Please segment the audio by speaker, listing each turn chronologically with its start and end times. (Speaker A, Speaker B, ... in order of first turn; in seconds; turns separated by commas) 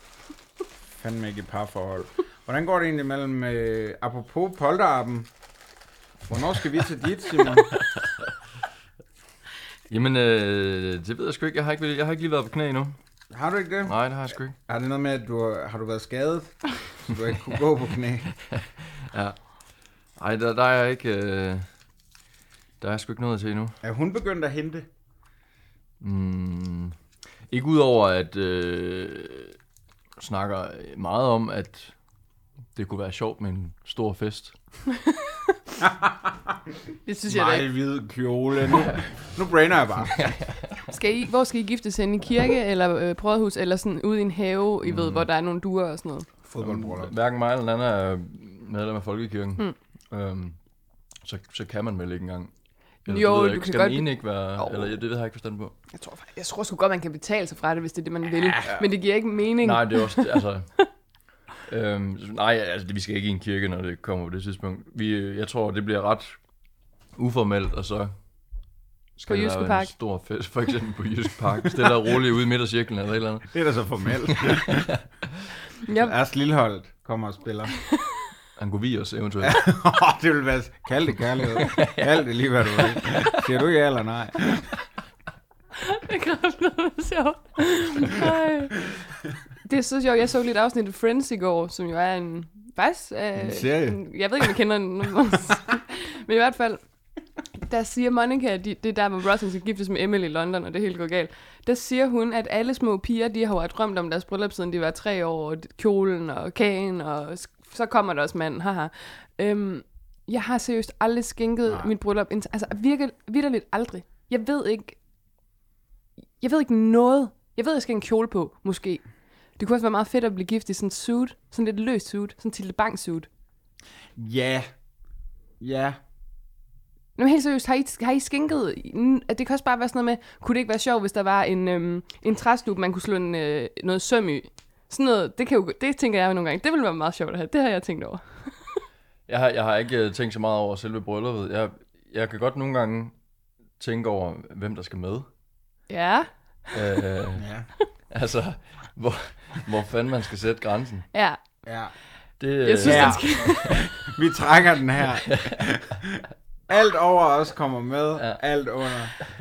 Speaker A: 1.0-5.3, Speaker A: 6.3-7.7, Speaker B: 9.9-12.9, Speaker A: 13.3-14.0, Speaker B: 13.8-14.6, Speaker A: 14.5-18.3, Speaker B: 18.6-19.4, Speaker B: 20.2-21.6, Speaker B: 22.8-23.8, Speaker A: 23.8-24.9, Speaker B: 26.0-26.9, Speaker B: 27.5-29.5, Speaker B: 30.2-31.9, Speaker B: 32.7-34.5, Speaker C: 35.1-35.5, Speaker A: 35.8-36.5, Speaker C: 37.0-37.7, Speaker A: 37.3-40.3, Speaker B: 40.2-40.8, Speaker C: 40.9-46.3, Speaker B: 44.8-45.3, Speaker A: 46.4-47.1, Speaker B: 46.6-50.6, Speaker B: 51.2-52.5, Speaker B: 53.0-55.7, Speaker C: 53.1-54.9, Speaker C: 55.9-60.3, Speaker A: 58.4-58.8, Speaker B: 59.6-60.7, Speaker B: 61.7-66.4, Speaker B: 67.2-68.1, Speaker B: 69.2-73.6, Speaker C: 69.3-69.9, Speaker A: 73.5-74.9, Speaker B: 74.3-74.9, Speaker C: 75.8-76.1, Speaker A: 75.9-77.7, Speaker B: 78.6-79.6, Speaker A: 79.4-84.7, Speaker B: 81.6-83.3, Speaker C: 85.8-88.8, Speaker C: 89.6-96.8, Speaker A: 93.4-94.0, Speaker C: 97.5-115.0, Speaker C: 116.4-119.0, Speaker C: 119.6-123.3, Speaker A: 124.2-124.7, Speaker A: 125.6-126.0, Speaker C: 127.2-138.8, Speaker B: 139.3-143.1, Speaker B: 143.8-145.3, Speaker C: 145.9-146.3, Speaker B: 146.7-147.5, Speaker A: 147.3-147.7, Speaker B: 148.1-151.1, Speaker C: 151.1-151.4, Speaker A: 151.7-151.9, Speaker B: 152.4-153.7, Speaker C: 152.6-153.9, Speaker A: 152.8-159.1, Speaker B: 155.3-155.6